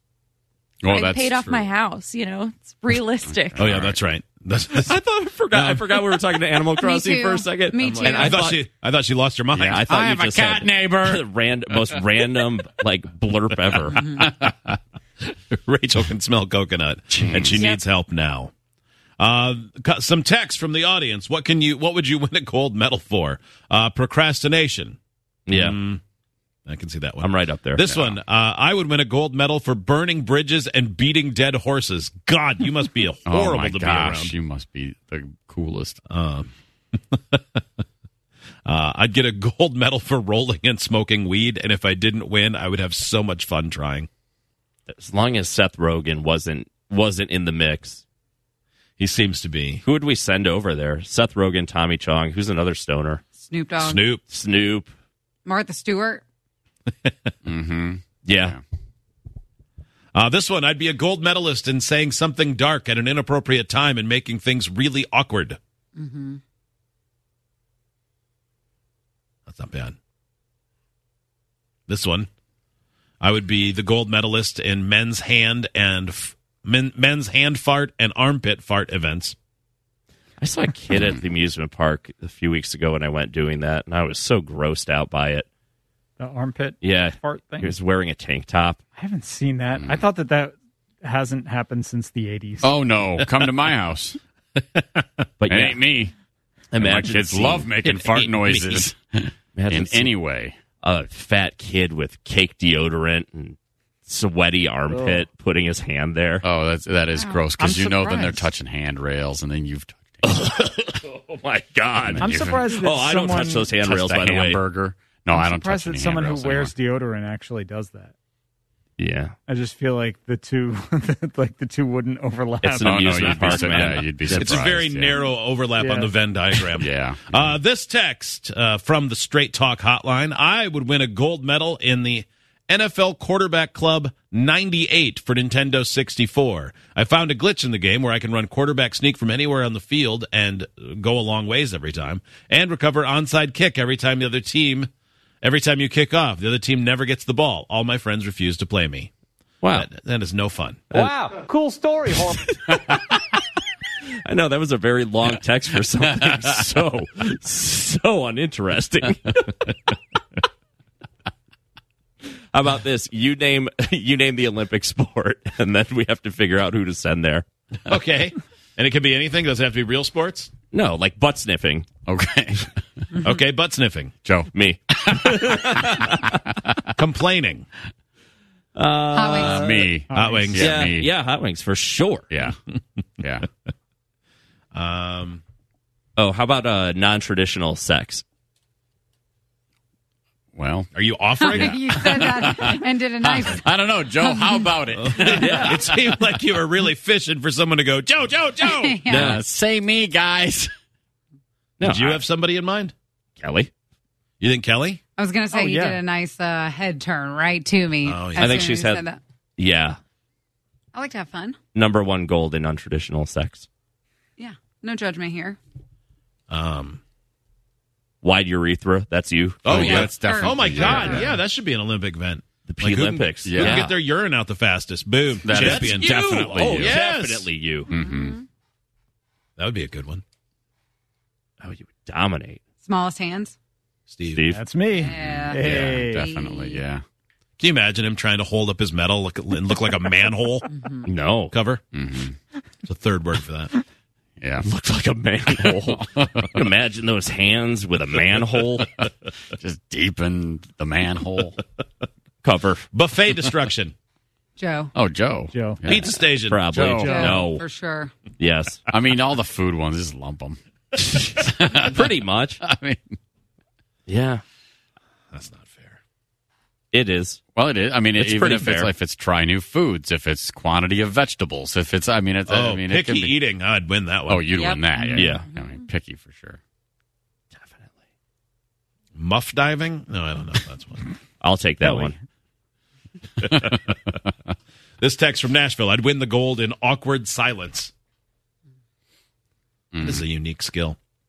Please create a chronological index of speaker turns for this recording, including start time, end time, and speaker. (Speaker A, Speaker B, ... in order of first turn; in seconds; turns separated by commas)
Speaker A: 0.8-1.7, Speaker B: 0.9-3.6, Speaker A: 3.2-4.0, Speaker C: 3.6-4.9, Speaker D: 4.7-8.6, Speaker E: 6.8-8.4, Speaker C: 7.9-9.7, Speaker A: 9.5-11.2, Speaker D: 9.7-14.1, Speaker A: 14.2-14.5, Speaker C: 15.5-18.5, Speaker A: 17.1-17.6, Speaker D: 17.3-17.6, Speaker C: 19.2-25.0, Speaker D: 25.5-25.7, Speaker C: 25.5-26.0, Speaker C: 26.6-34.3, Speaker D: 27.2-27.9, Speaker A: 27.8-28.2, Speaker A: 33.2-36.0, Speaker C: 36.1-36.5, Speaker C: 37.1-37.6, Speaker C: 38.6-44.1, Speaker D: 44.9-48.0, Speaker C: 49.0-49.8, Speaker D: 49.8-53.2, Speaker E: 53.4-54.0, Speaker C: 53.8-54.2, Speaker D: 54.3-54.9, Speaker E: 55.5-56.2, Speaker A: 57.4-58.6, Speaker D: 58.2-58.5, Speaker C: 60.1-65.6, Speaker E: 66.0-66.4, Speaker C: 69.5-70.0, Speaker C: 71.9-72.3, Speaker C: 73.2-79.3, Speaker D: 80.4-85.5, Speaker A: 80.9-81.2, Speaker F: 86.2-87.7, Speaker D: 86.8-88.8, Speaker F: 89.0-92.7, Speaker A: 89.7-90.1, Speaker A: 92.6-94.2, Speaker C: 94.8-95.0, Speaker D: 95.4-95.8, Speaker A: 95.4-96.1, Speaker D: 96.7-97.8, Speaker A: 96.8-100.5, Speaker C: 97.8-98.8, Speaker D: 99.5-100.1, Speaker D: 100.8-106.4, Speaker F: 104.9-105.2, Speaker A: 106.4-110.3, Speaker E: 107.2-107.4, Speaker F: 107.6-108.4, Speaker D: 110.2-114.6, Speaker A: 112.0-112.7, Speaker F: 112.2-113.7, Speaker A: 113.7-116.7, Speaker F: 115.3-118.1, Speaker D: 119.0-119.3, Speaker F: 119.5-123.0, Speaker A: 122.6-125.4, Speaker D: 122.6-124.6, Speaker C: 124.2-144.9, Speaker A: 126.5-127.6, Speaker C: 145.4-149.1, Speaker D: 149.6-149.9, Speaker C: 149.7-150.9, Speaker F: 151.0-152.4, Speaker D: 152.6-153.2, Speaker D: 154.2-159.7, Speaker D: 162.5-167.4, Speaker C: 167.8-170.5, Speaker D: 170.7-171.9, Speaker A: 172.1-173.2, Speaker C: 173.2-174.1, Speaker A: 174.2-176.8, Speaker D: 174.5-176.3, Speaker C: 177.0-177.7, Speaker D: 178.7-179.9, Speaker E: 179.1-179.6, Speaker A: 179.3-181.1, Speaker F: 179.6-180.5, Speaker C: 180.1-180.8, Speaker D: 180.5-182.3, Speaker A: 182.3-182.6, Speaker C: 184.7-185.4, Speaker D: 186.2-188.2, Speaker A: 190.5-196.0, Speaker C: 190.9-192.2, Speaker E: 191.3-193.7, Speaker E: 194.2-194.7, Speaker C: 194.9-199.0, Speaker D: 195.2-195.8, Speaker E: 198.6-199.3, Speaker D: 199.1-199.4, Speaker A: 199.1-200.7, Speaker D: 201.8-202.2, Speaker C: 201.8-202.9, Speaker D: 203.4-203.7, Speaker C: 204.4-205.0, Speaker E: 205.2-209.2, Speaker F: 205.5-206.0, Speaker C: 208.0-208.6, Speaker D: 208.3-209.0, Speaker D: 209.6-210.0, Speaker E: 210.9-211.6, Speaker D: 211.7-213.7, Speaker E: 214.4-215.6, Speaker C: 216.5-217.0, Speaker D: 218.2-220.0, Speaker C: 219.6-227.5, Speaker A: 219.7-221.4, Speaker E: 219.7-221.3, Speaker D: 222.7-223.9, Speaker A: 223.3-224.0, Speaker A: 225.4-227.0, Speaker D: 225.5-227.9, Speaker E: 227.9-228.4, Speaker A: 227.9-228.4, Speaker C: 229.6-230.2, Speaker D: 231.6-232.6, Speaker E: 232.8-233.5, Speaker C: 234.1-234.5, Speaker D: 234.3-234.6, Speaker F: 234.5-236.2, Speaker E: 234.9-236.8, Speaker A: 235.0-237.0, Speaker C: 237.6-240.7, Speaker E: 240.7-241.0, Speaker D: 241.0-241.6, Speaker C: 241.5-241.8, Speaker A: 241.9-242.4, Speaker C: 242.8-243.7, Speaker A: 244.4-244.7, Speaker D: 244.6-248.9, Speaker A: 245.6-246.5, Speaker A: 249.0-251.6, Speaker D: 252.4-252.8, Speaker C: 252.9-253.9, Speaker E: 254.6-254.9, Speaker A: 254.9-257.3, Speaker F: 255.5-255.8, Speaker C: 255.9-256.7, Speaker D: 256.3-257.6, Speaker E: 257.0-258.1, Speaker D: 258.4-258.9, Speaker A: 258.9-263.1, Speaker D: 261.9-262.6, Speaker D: 264.1-264.4, Speaker C: 265.3-266.0, Speaker D: 266.9-267.4, Speaker A: 267.5-273.4, Speaker D: 268.2-268.9, Speaker C: 272.5-274.5, Speaker A: 274.3-276.6, Speaker E: 274.5-275.5, Speaker D: 275.1-275.5, Speaker D: 277.6-277.9, Speaker C: 279.1-281.1, Speaker D: 281.4-282.2, Speaker A: 283.6-283.9, Speaker C: 285.0-287.9, Speaker A: 289.9-290.3, Speaker C: 290.0-291.0